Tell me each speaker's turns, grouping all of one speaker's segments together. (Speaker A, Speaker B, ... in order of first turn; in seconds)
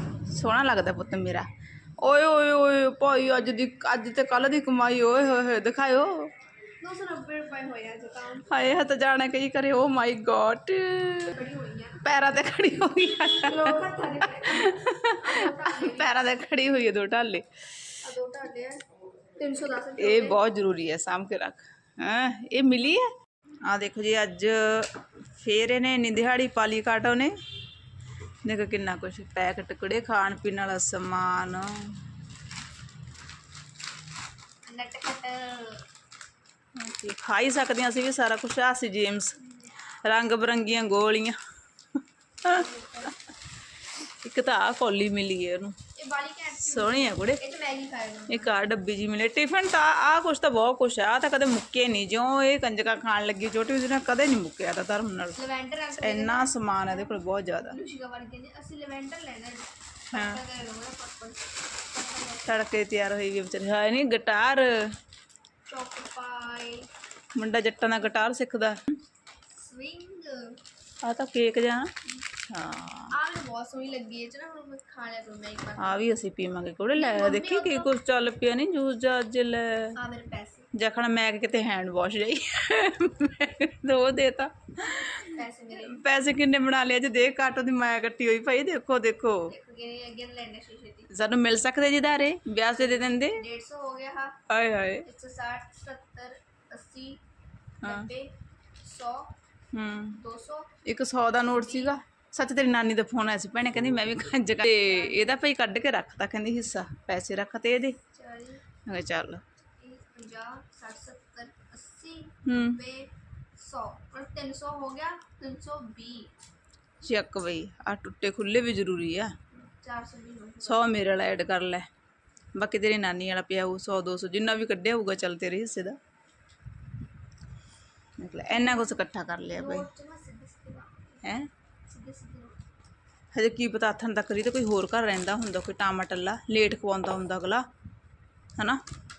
Speaker A: 0.2-1.5, 2.0-6.3, 8.4-11.3, 12.0-17.4, 20.0-23.1, 23.6-27.3, 28.4-31.9, 36.8-39.4, 40.0-41.4, 44.0-45.8, 46.5-47.4, 48.3-55.4, 55.9-57.8, 60.1-60.4, 62.5-64.9, 67.3-68.9, 71.0-73.1, 75.8-80.0, 80.7-89.5, 91.1-93.4, 94.5-95.1, 97.8-98.1, 99.7-100.2, 100.8-108.0, 108.8-109.4, 112.4-112.8, 117.0-119.3, 120.6-121.9, 122.5-126.0, 128.2-129.9, 131.2-131.5, 133.3-137.6
Speaker B: 6.8-8.6, 11.3-12.0, 13.4-16.2, 18.0-20.4, 34.6-35.9, 42.4-43.1, 45.9-48.5, 55.3-62.6, 65.7-66.9, 69.5-70.6, 73.1-76.1, 76.9-77.9, 80.0-80.7, 85.2-86.0, 89.5-91.1, 93.2-94.4, 95.0-97.2, 97.8-99.4, 100.2-100.8, 101.5-101.9, 104.7-105.3, 108.1-108.6, 109.8-116.3, 119.5-120.9, 128.5-129.0, 129.5-131.2, 131.9-132.6